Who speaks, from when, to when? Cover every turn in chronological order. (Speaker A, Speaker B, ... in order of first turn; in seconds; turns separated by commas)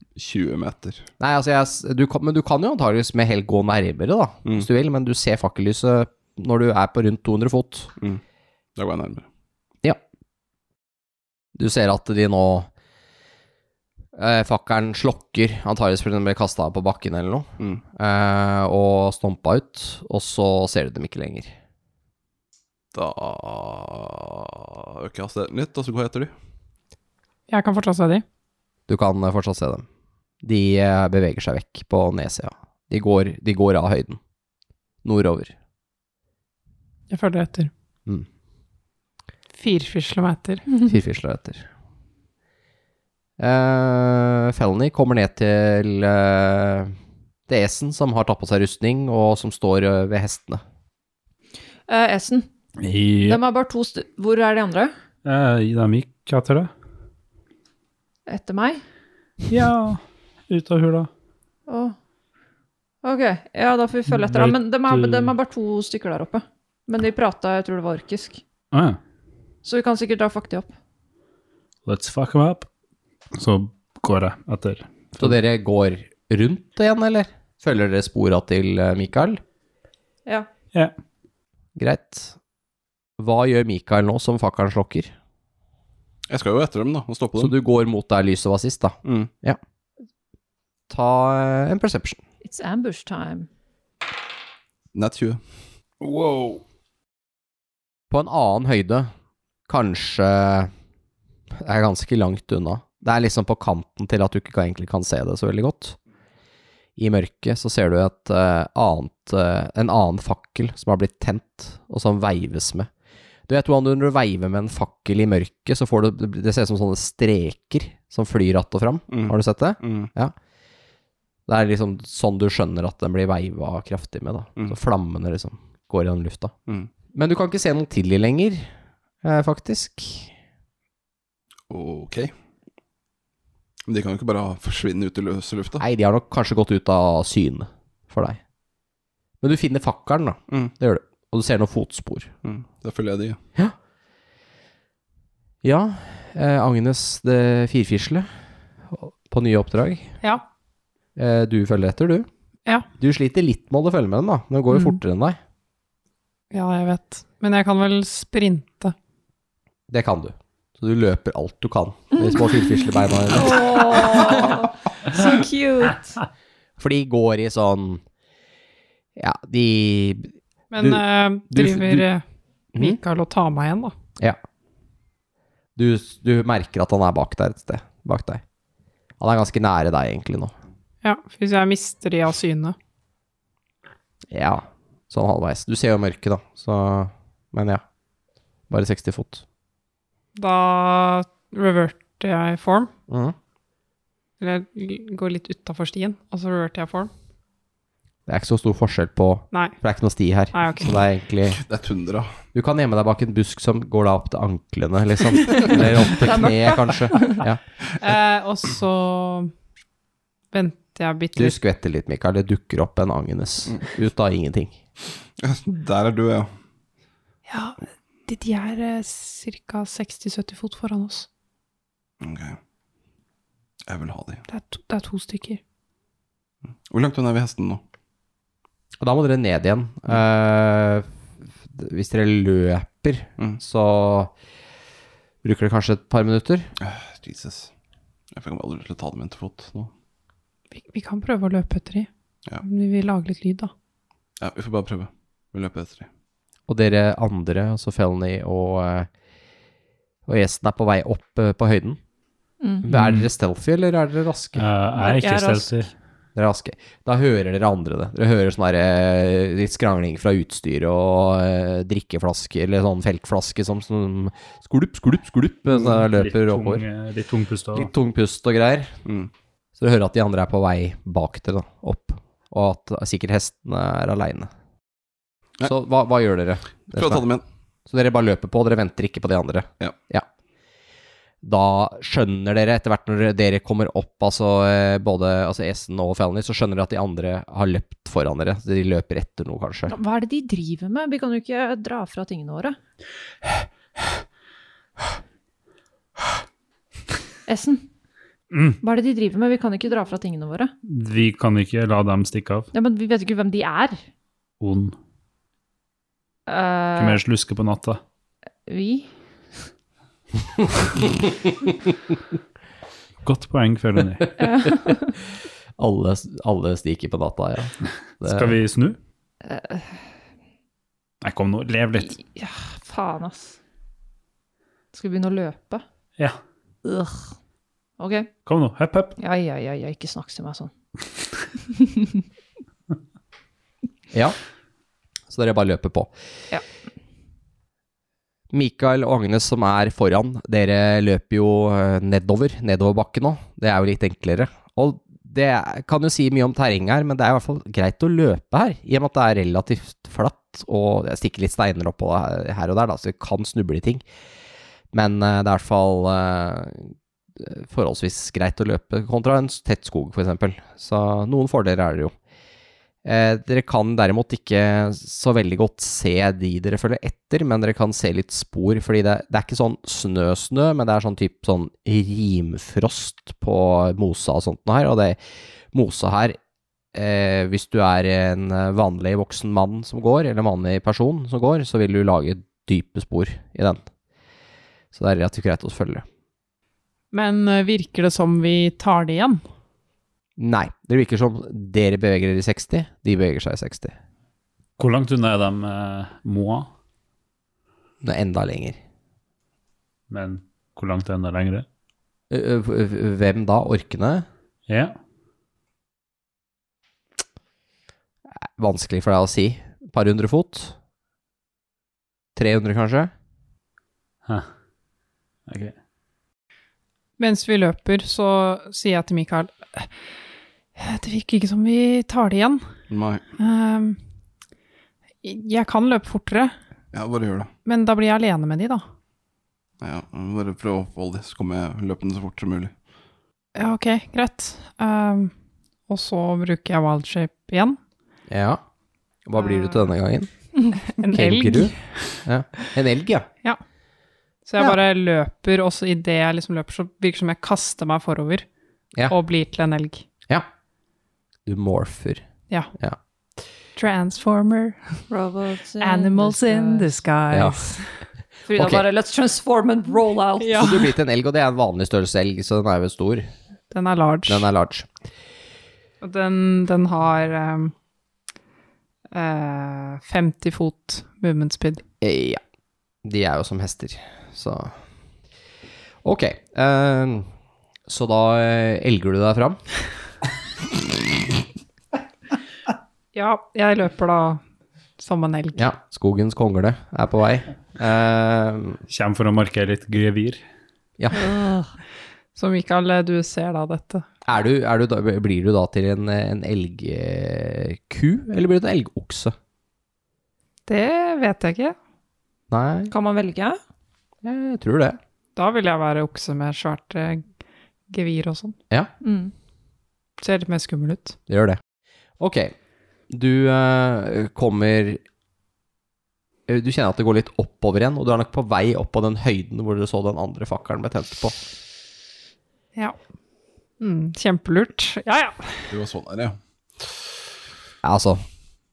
Speaker A: 0.1-1.1, Speaker B: 1.2-7.9, Speaker A: 8.8-9.3, Speaker B: 11.5-12.7, Speaker B: 14.1-21.5, Speaker A: 22.9-26.3, Speaker C: 27.5-28.2, Speaker B: 28.9-29.9, Speaker B: 30.4-34.2, Speaker B: 35.0-35.5, Speaker C: 37.1-37.7, Speaker C: 39.6-40.7, Speaker B: 40.8-41.6, Speaker B: 43.4-46.9, Speaker B: 47.5-50.6, Speaker D: 51.9-52.5, Speaker E: 52.8-53.4, Speaker D: 53.2-54.9, Speaker E: 55.2-56.7, Speaker D: 58.3-58.8, Speaker E: 59.5-61.1, Speaker D: 61.7-61.9, Speaker D: 63.0-68.4, Speaker E: 64.1-65.3, Speaker E: 68.7-69.0, Speaker D: 69.6-70.7, Speaker E: 71.8-72.7, Speaker E: 73.3-75.3, Speaker B: 75.2-79.4, Speaker B: 81.8-82.3, Speaker B: 83.2-85.1, Speaker A: 86.3-87.5, Speaker B: 87.3-89.6, Speaker A: 89.0-89.3, Speaker B: 90.9-92.2, Speaker D: 92.4-93.5, Speaker A: 94.9-95.4, Speaker A: 96.0-96.6, Speaker B: 98.1-99.1, Speaker B: 99.7-100.7, Speaker B: 101.6-106.0, Speaker B: 107.0-112.9, Speaker B: 113.5-120.3, Speaker A: 119.1-120.1, Speaker B: 121.5-126.5, Speaker B: 127.1-128.7, Speaker B: 129.2-130.3, Speaker A: 131.7-132.3, Speaker A: 133.8-135.8, Speaker B: 135.8-138.4, Speaker B: 139.4-142.3, Speaker A: 142.4-143.4, Speaker B: 145.6-148.3, Speaker B: 148.9-150.1, Speaker B: 151.2-152.3, Speaker B: 153.0-155.4, Speaker C: 156.5-158.9, Speaker B: 159.9-163.8, Speaker D: 163.3-166.2, Speaker B: 166.8-168.0, Speaker B: 169.2-172.0, Speaker C: 170.7-172.2, Speaker C: 172.8-173.9, Speaker B: 175.8-178.4, Speaker B: 179.2-180.5, Speaker C: 181.0-182.7, Speaker B: 184.3-187.8, Speaker B: 188.7-189.4, Speaker C: 190.3-192.9, Speaker B: 193.1-193.3, Speaker C: 194.4-197.1, Speaker B: 198.3-201.6, Speaker C: 200.5-200.9, Speaker A: 201.6-202.3, Speaker B: 202.5-207.6, Speaker D: 206.2-207.4, Speaker C: 208.0-209.5, Speaker C: 210.5-211.6, Speaker B: 211.3-214.8, Speaker A: 215.4-216.5, Speaker C: 217.5-221.3, Speaker A: 222.2-222.6, Speaker A: 223.8-224.4, Speaker C: 224.5-225.6, Speaker A: 226.9-227.8, Speaker B: 229.0-231.1, Speaker B: 231.7-234.3, Speaker B: 235.4-236.7, Speaker A: 236.8-237.7, Speaker A: 238.3-239.9, Speaker C: 240.7-242.1, Speaker C: 242.6-243.7, Speaker A: 244.4-246.1, Speaker B: 246.7-249.1, Speaker B: 250.3-252.0, Speaker B: 252.8-254.7, Speaker E: 252.9-253.3, Speaker E: 254.6-255.9, Speaker D: 255.0-255.8, Speaker B: 256.4-266.8, Speaker E: 265.7-267.9, Speaker B: 267.7-268.9, Speaker B: 269.8-274.5, Speaker B: 275.6-277.2, Speaker A: 276.9-277.4, Speaker B: 277.9-280.2, Speaker B: 281.4-289.9, Speaker D: 289.9-292.8, Speaker D: 297.5-297.9, Speaker E: 298.5-298.8, Speaker D: 298.8-300.7, Speaker E: 300.9-302.7, Speaker D: 302.7-304.0, Speaker E: 304.6-304.9, Speaker D: 306.5-307.2, Speaker E: 306.9-308.0, Speaker D: 308.7-309.1, Speaker E: 313.2-314.4, Speaker D: 314.4-315.1, Speaker B: 315.8-318.6, Speaker E: 318.2-319.0, Speaker D: 319.4-320.0, Speaker E: 321.2-322.1, Speaker D: 322.0-323.6, Speaker D: 324.9-325.8, Speaker D: 326.8-327.3, Speaker D: 328.0-328.3, Speaker E: 328.4-329.1, Speaker D: 329.2-330.7, Speaker D: 331.7-332.2, Speaker B: 334.1-334.4, Speaker B: 335.3-336.1, Speaker B: 338.5-354.0, Speaker B: 354.9-362.1, Speaker B: 363.0-375.2, Speaker B: 375.7-376.4, Speaker B: 376.9-383.8, Speaker B: 384.9-386.0, Speaker C: 387.1-389.4, Speaker B: 390.4-393.9, Speaker E: 394.8-396.7, Speaker B: 398.0-398.8, Speaker E: 400.1-401.6, Speaker B: 402.3-404.2, Speaker E: 404.7-404.9, Speaker B: 408.6-410.7, Speaker B: 412.4-413.1, Speaker E: 415.5-415.7, Speaker C: 417.2-419.9, Speaker C: 420.8-422.6, Speaker A: 422.9-423.2, Speaker C: 423.4-424.0, Speaker C: 425.2-426.5, Speaker A: 426.9-427.5, Speaker C: 427.6-428.8, Speaker A: 429.8-432.7, Speaker C: 433.5-435.3, Speaker C: 435.9-437.8, Speaker B: 438.3-438.6, Speaker B: 439.2-440.3, Speaker C: 440.9-441.8, Speaker B: 441.1-443.3, Speaker C: 444.4-448.4, Speaker C: 449.1-450.0, Speaker B: 451.4-452.2, Speaker C: 453.8-455.0, Speaker D: 455.1-457.0, Speaker C: 455.8-458.0, Speaker B: 457.3-457.6, Speaker D: 458.5-460.8, Speaker B: 458.5-458.8, Speaker C: 460.4-460.9, Speaker B: 460.6-463.3, Speaker C: 463.7-464.4, Speaker B: 464.3-464.9, Speaker C: 466.0-467.7, Speaker C: 469.1-471.8, Speaker B: 472.0-472.4, Speaker B: 473.0-474.7, Speaker B: 476.0-477.3, Speaker B: 477.9-479.6, Speaker C: 483.1-484.4, Speaker C: 485.0-485.6, Speaker B: 485.5-488.8, Speaker E: 488.9-490.4, Speaker D: 491.1-491.7, Speaker C: 492.4-494.0, Speaker B: 494.2-499.3, Speaker C: 500.7-501.8, Speaker B: 502.5-502.9, Speaker D: 502.9-503.6, Speaker B: 504.2-505.0, Speaker C: 505.4-507.2, Speaker C: 507.9-508.6, Speaker D: 509.0-509.3, Speaker C: 510.2-511.1, Speaker B: 511.3-511.6, Speaker B: 512.2-512.5, Speaker B: 513.1-515.0, Speaker B: 516.5-521.4, Speaker C: 523.8-525.7, Speaker A: 525.7-527.0, Speaker B: 527.8-528.2